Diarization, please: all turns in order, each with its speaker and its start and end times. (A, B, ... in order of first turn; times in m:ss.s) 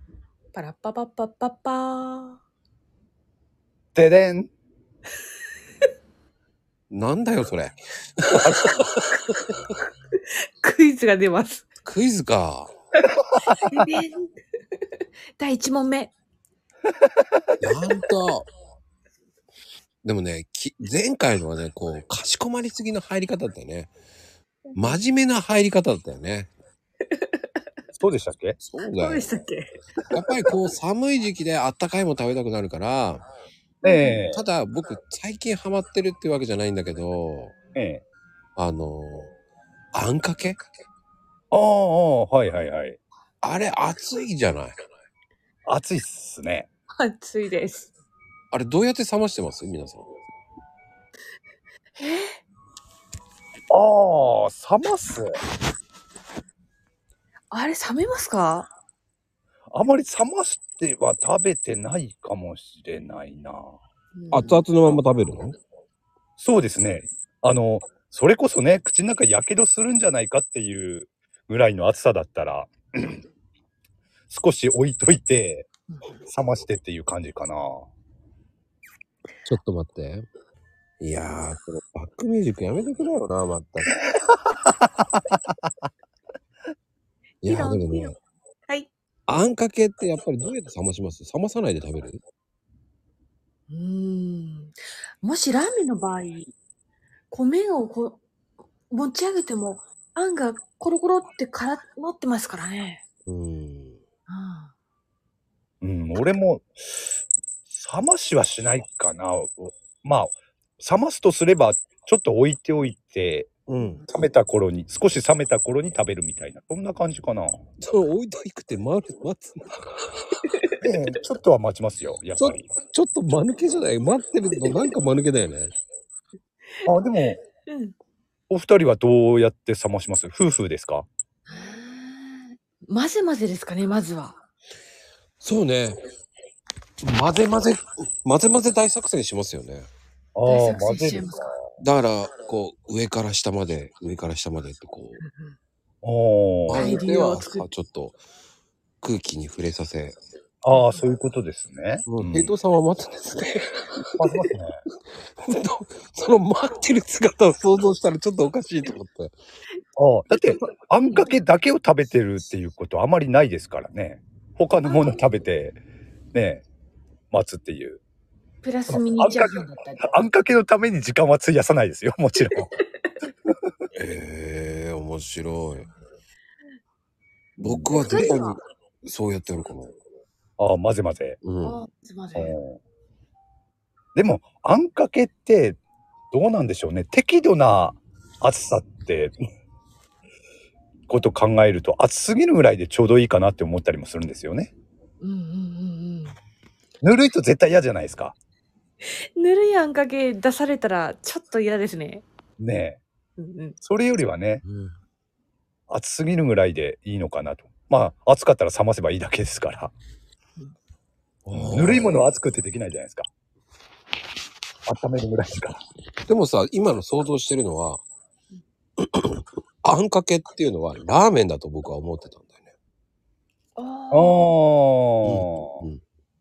0:00.5-0:02.4 A
0:03.9-0:04.5 B
0:06.9-0:09.2 C
0:08.4-0:08.7 B
0:10.6-0:11.7 A
0:11.8-0:12.7 C
0:13.4-0:13.7 B
0:13.6-0:14.3 A
0:15.4-0:16.1 A
0:17.6-0:18.5 C
0:20.0-0:23.9 C
0:24.6-0:25.0 A
0:24.8-0:26.5 C
0:27.1-0:27.5 A
0:28.0-0:28.6 B
0:28.6-0:29.3 C
0:28.8-0:29.7 A
0:30.1-0:33.3 C
0:33.8-0:34.2 A
0:33.8-0:34.4 B
0:34.3-0:37.5 C
0:37.7-0:38.0 B
0:38.6-0:39.3 C
0:39.9-0:40.6 C
0:41.5-0:43.0 B
0:43.4-0:44.8 C
0:45.7-0:46.7 B
0:47.0-0:47.9 A
0:48.5-0:50.1 C
0:52.0-0:52.4 A
0:53.7-0:55.3 B
0:57.5-0:58.7 A
0:59.7-1:03.8 B
1:04.1-1:04.6 A
1:04.3-1:05.6 C
1:06.4-1:13.2 B
1:14.3-1:15.7 B
1:15.9-1:16.2 A
1:16.3-1:17.9 B
1:19.4-1:20.2 C
1:21.0-1:23.9 C
1:24.1-1:25.5 B
1:27.4-1:28.1 C
1:27.4-1:28.1 A
1:29.3-1:32.2 C
1:33.7-1:36.5 A
1:37.3-1:38.2 A
1:38.9-1:43.0 A
1:43.3-1:44.0 C
1:44.3-1:44.7 A
1:45.8-1:47.1 B
1:47.7-1:53.5 B
1:53.7-1:54.0 C
1:53.8-1:54.0 A
1:54.1-1:57.6 B
1:57.8-1:59.8 C
2:00.8-2:02.6 B
2:02.4-2:05.7 C
2:06.8-2:07.4 B
2:07.7-2:07.9 A
2:08.5-2:11.1 B
2:11.5-2:14.4 A
2:15.4-2:16.0 C
2:17.0-2:19.9 C
2:20.3-2:21.7 B
2:20.4-2:21.5 A
2:21.8-2:25.2 C
2:25.2-2:25.6 A
2:26.0-2:26.9 B
2:26.7-2:28.2 C
2:26.7-2:27.7 A
2:29.0-2:30.2 C
2:30.6-2:32.5 B
2:30.7-2:31.0 A
2:32.1-2:34.2 C
2:34.2-2:34.8 B
2:35.4-2:39.3 C
2:40.0-2:45.8 B
2:40.3-2:41.3 A
2:44.8-2:45.2 A
2:46.3-2:46.6 B
2:47.3-2:48.0 B
2:48.6-2:50.2 A
2:48.9-2:52.7 B
2:54.0-2:55.9 C
2:57.6-2:59.9 C
2:57.6-2:58.1 B
2:57.9-2:58.6 A
3:00.6-3:01.4 B
3:01.4-3:01.8 C
3:01.6-3:02.6 A
3:02.3-3:02.8 B
3:04.1-3:05.8 B
3:06.3-3:09.3 B
3:11.1-3:14.7 B
3:15.2-3:16.4 A
3:17.0-3:18.3 B
3:19.4-3:22.2 A
3:22.6-3:23.0 B
3:23.4-3:23.8 A
3:23.8-3:24.6 B
3:24.6-3:25.0 C
3:25.9-3:29.9 B
3:31.4-3:32.2 C
3:31.5-3:33.3 B
3:34.9-3:35.8 B
3:36.3-3:38.0 C
3:39.0-3:42.7 C
3:43.8-3:44.5 A
3:44.1-3:45.8 B
3:45.2-3:46.0 C